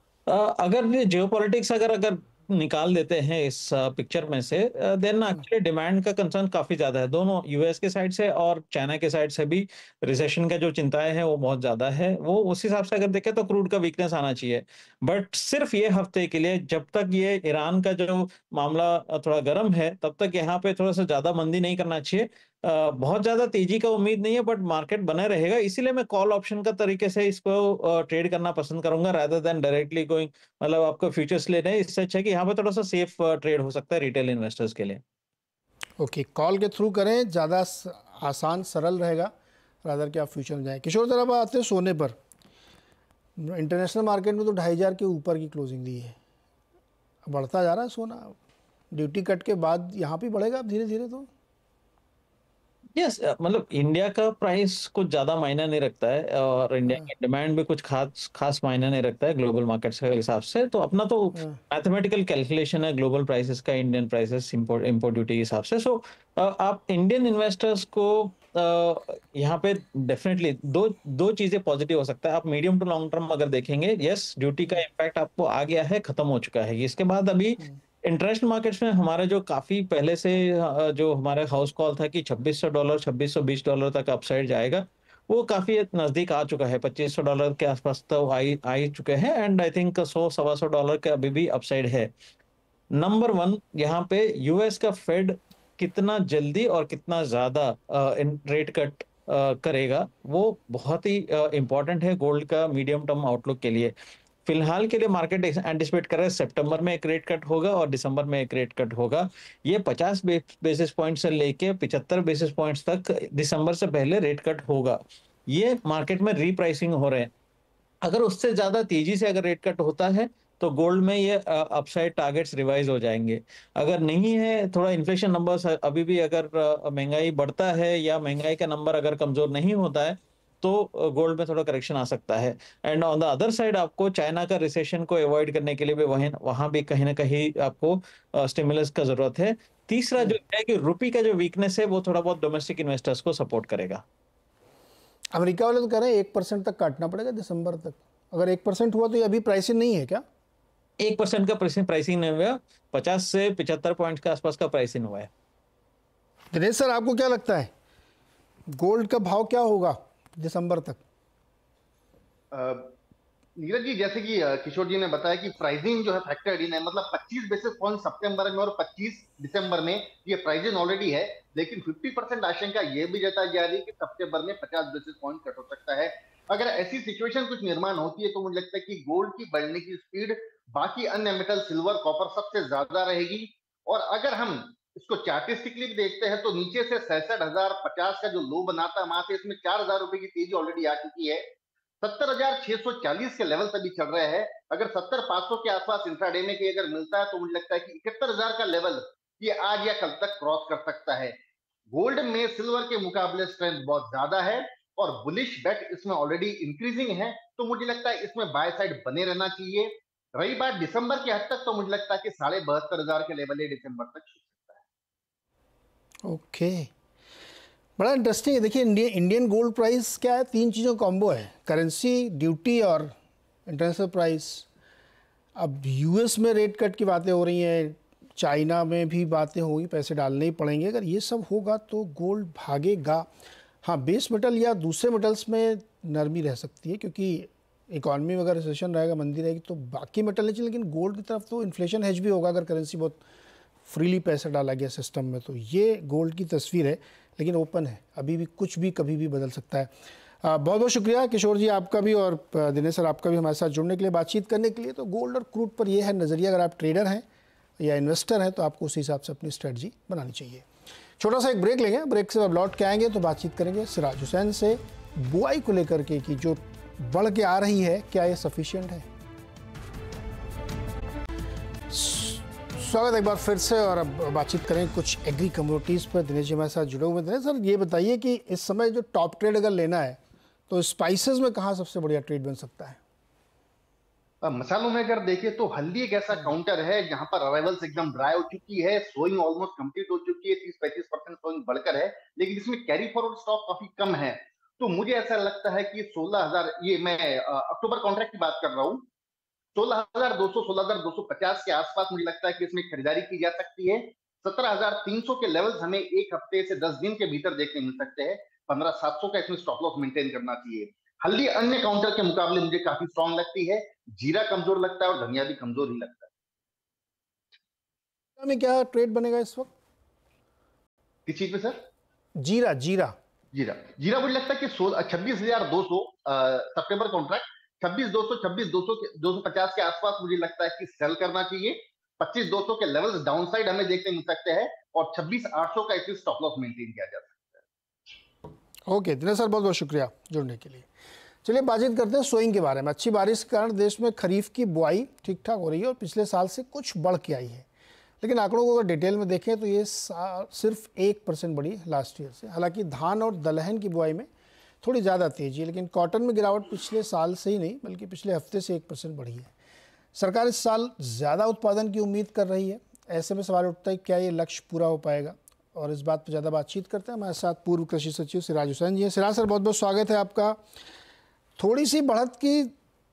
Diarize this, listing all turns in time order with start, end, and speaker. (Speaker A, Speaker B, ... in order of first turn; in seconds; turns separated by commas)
Speaker A: 0.3-35.0, Speaker B: 36.0-39.3, Speaker B: 39.8-42.2, Speaker B: 43.4-46.2, Speaker B: 47.2-48.4, Speaker B: 48.9-51.3, Speaker A: 53.0-92.1, Speaker A: 92.9-103.9, Speaker A: 104.5-117.3, Speaker A: 118.0-144.0, Speaker B: 145.3-150.2, Speaker A: 151.0-155.3, Speaker B: 156.5-157.7, Speaker B: 158.7-161.0, Speaker C: 162.5-162.9, Speaker C: 163.6-191.5, Speaker C: 192.0-201.4, Speaker C: 201.9-214.8, Speaker B: 216.2-216.9, Speaker B: 218.0-223.1, Speaker B: 223.7-224.7, Speaker B: 225.6-233.3, Speaker B: 233.8-243.2, Speaker B: 243.9-249.9, Speaker B: 250.4-257.2, Speaker B: 257.8-260.7, Speaker B: 261.2-269.1, Speaker B: 271.9-280.2, Speaker B: 280.7-283.0, Speaker C: 284.4-299.1, Speaker C: 299.8-316.3, Speaker B: 318.4-319.7, Speaker C: 321.3-321.8, Speaker B: 322.4-323.2, Speaker C: 323.5-337.6, Speaker B: 338.9-340.9, Speaker B: 341.4-347.7, Speaker B: 348.2-354.3, Speaker B: 354.8-359.5, Speaker B: 360.1-370.6, Speaker B: 371.6-372.7